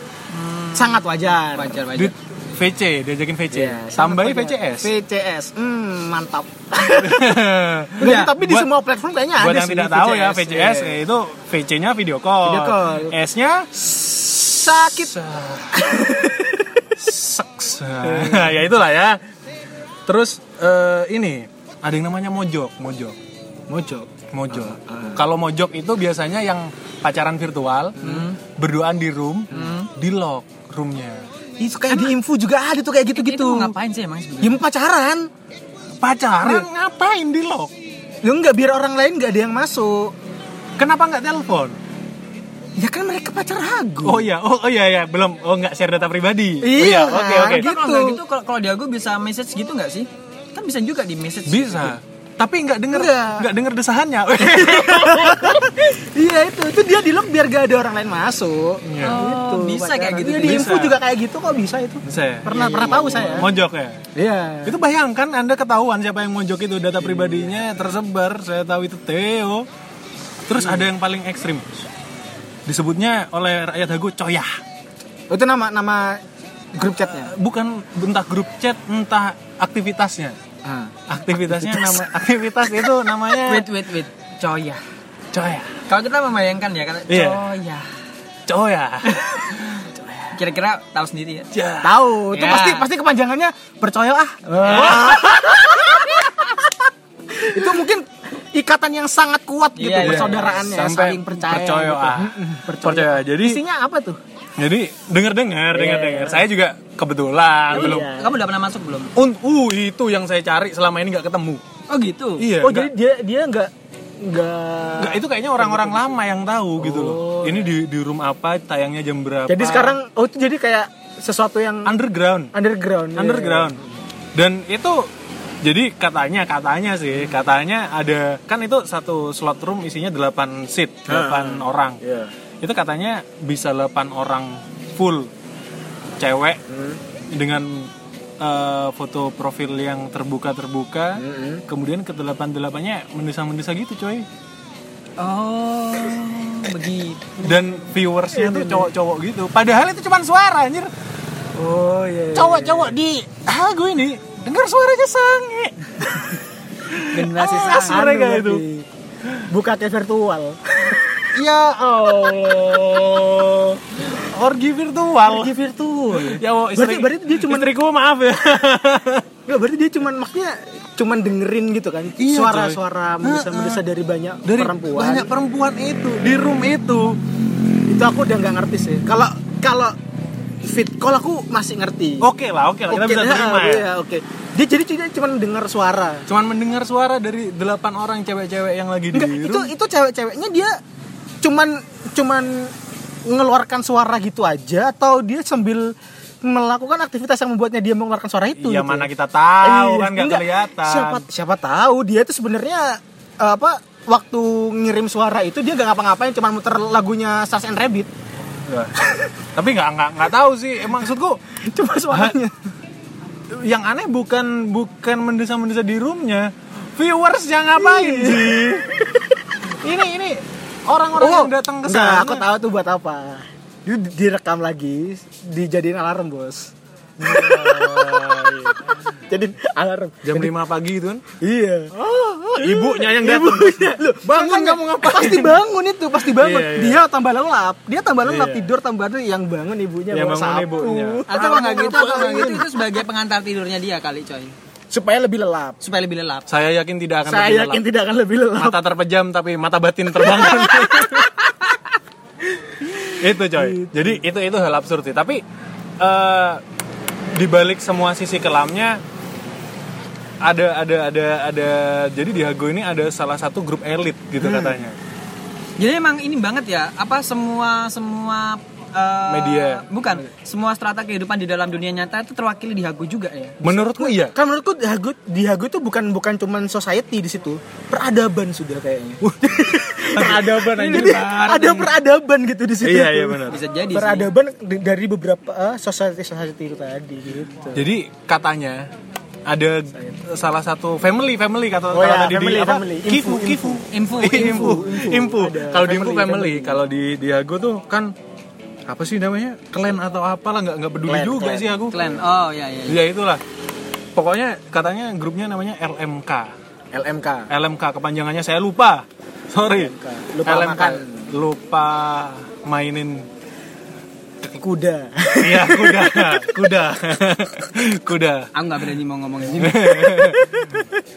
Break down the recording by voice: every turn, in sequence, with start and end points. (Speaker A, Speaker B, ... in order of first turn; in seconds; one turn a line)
Speaker A: 0.3-2.1
Speaker B: 0.7-1.8
Speaker C: 1.9-4.9
Speaker B: 3.5-7.4
Speaker C: 6.9-8.7
Speaker B: 8.0-11.0
Speaker A: 8.0-8.3
Speaker C: 9.4-13.7
Speaker B: 12.4-13.2
Speaker B: 13.8-15.2
Speaker C: 14.8-16.0
Speaker B: 15.7-16.9
Speaker C: 17.0-19.2
Speaker B: 18.0-18.6
Speaker C: 20.1-23.2
Speaker B: 23.7-25.2
Speaker C: 24.3-31.3
Speaker A: 28.0-28.4
Speaker A: 29.5-29.9
Speaker B: 31.6-33.8
Speaker A: 33.1-34.6
Speaker B: 34.4-35.3
Speaker C: 36.0-37.7
Speaker B: 38.2-40.1
Speaker C: 40.8-41.8
Speaker B: 42.8-44.3
Speaker C: 44.0-47.7
Speaker B: 46.6-48.2
Speaker A: 47.5-52.0
Speaker C: 51.5-55.7
Speaker B: 52.9-53.5
Speaker B: 54.4-63.5
Speaker C: 58.8-59.2
Speaker A: 59.0-60.8
Speaker C: 60.2-61.0
Speaker C: 62.0-64.0
Speaker A: 63.0-63.4
Speaker B: 64.2-64.8
Speaker C: 64.7-69.7
Speaker B: 67.0-67.5
Speaker C: 70.5-71.7
Speaker B: 70.6-70.8
Speaker C: 72.7-74.5
Speaker B: 75.3-76.2
Speaker B: 76.7-77.3
Speaker C: 77.2-80.4
Speaker B: 80.7-82.0
Speaker C: 81.1-83.7
Speaker A: 83.4-84.8
Speaker C: 85.3-85.8
Speaker A: 85.9-87.9
Speaker C: 87.1-87.5
Speaker C: 88.5-89.9
Speaker A: 90.3-91.5
Speaker C: 91.5-92.0
Speaker B: 91.8-96.7
Speaker A: 92.3-92.9
Speaker C: 94.6-95.8
Speaker B: 97.4-104.2
Speaker A: 99.8-100.7
Speaker C: 100.0-103.6
Speaker C: 104.6-108.1
Speaker B: 105.7-106.5
Speaker B: 107.7-108.4
Speaker A: 107.7-109.1
Speaker C: 109.2-111.6
Speaker A: 111.9-112.5
Speaker C: 112.4-112.9
Speaker B: 112.6-116.2
Speaker C: 115.0-120.0
Speaker B: 116.8-117.7
Speaker B: 119.5-122.0
Speaker C: 121.8-122.5
Speaker B: 122.5-123.9
Speaker C: 123.2-123.8
Speaker C: 124.4-125.1
Speaker C: 125.6-132.0
Speaker B: 131.1-132.3
Speaker C: 132.6-135.3
Speaker C: 136.2-136.6
Speaker B: 136.7-137.0
Speaker C: 137.3-144.3
Speaker B: 141.2-141.6
Speaker A: 145.2-147.6
Speaker C: 147.4-150.9
Speaker B: 148.3-148.9
Speaker B: 151.6-153.0
Speaker C: 152.3-158.6
Speaker A: 157.1-158.1
Speaker B: 157.4-158.9
Speaker B: 159.5-161.4
Speaker C: 161.3-165.5
Speaker B: 162.1-163.0
Speaker B: 165.2-167.7
Speaker C: 166.1-169.3
Speaker B: 169.5-175.3
Speaker C: 172.2-173.8
Speaker C: 174.4-177.2
Speaker B: 177.9-179.9
Speaker B: 180.6-182.3
Speaker C: 182.2-183.9
Speaker B: 182.9-186.3
Speaker C: 186.3-189.7
Speaker B: 189.1-190.7
Speaker B: 191.4-192.7
Speaker B: 193.3-199.1
Speaker C: 198.6-201.3
Speaker B: 199.6-208.1
Speaker C: 208.6-209.0
Speaker C: 209.6-211.4
Speaker B: 211.6-212.5
Speaker C: 212.1-212.4
Speaker C: 213.5-219.0
Speaker B: 217.8-219.4
Speaker C: 219.7-222.5
Speaker B: 221.2-230.5
Speaker C: 227.2-229.1
Speaker C: 230.2-231.3
Speaker B: 231.4-242.8
Speaker C: 231.9-235.6
Speaker C: 236.2-237.0
Speaker C: 238.2-238.7
Speaker C: 240.1-241.2
Speaker A: 241.3-244.6
Speaker B: 244.9-245.8
Speaker A: 245.8-246.5
Speaker C: 246.5-247.8
Speaker B: 247.3-248.8
Speaker C: 248.6-251.4
Speaker B: 250.2-251.5
Speaker B: 252.9-254.1
Speaker C: 253.0-255.4
Speaker C: 256.0-256.6
Speaker C: 257.4-259.0
Speaker C: 260.4-265.0
Speaker B: 264.4-264.8
Speaker A: 265.8-273.6
Speaker C: 269.3-269.9
Speaker C: 273.6-274.4
Speaker B: 273.7-287.9
Speaker C: 279.2-281.2
Speaker A: 280.1-281.9
Speaker C: 282.8-283.6
Speaker A: 283.5-284.3
Speaker C: 287.8-288.9
Speaker C: 289.5-298.1
Speaker B: 291.9-296.8
Speaker A: 293.9-294.8
Speaker C: 298.9-302.1
Speaker B: 301.0-301.8
Speaker A: 301.9-303.0
Speaker C: 302.9-303.4
Speaker C: 304.1-306.5
Speaker B: 306.9-307.5
Speaker C: 307.5-313.3
Speaker B: 309.7-311.4
Speaker B: 314.4-316.8
Speaker C: 315.4-318.5
Speaker A: 318.5-319.9
Speaker C: 319.6-320.9
Speaker B: 319.7-320.9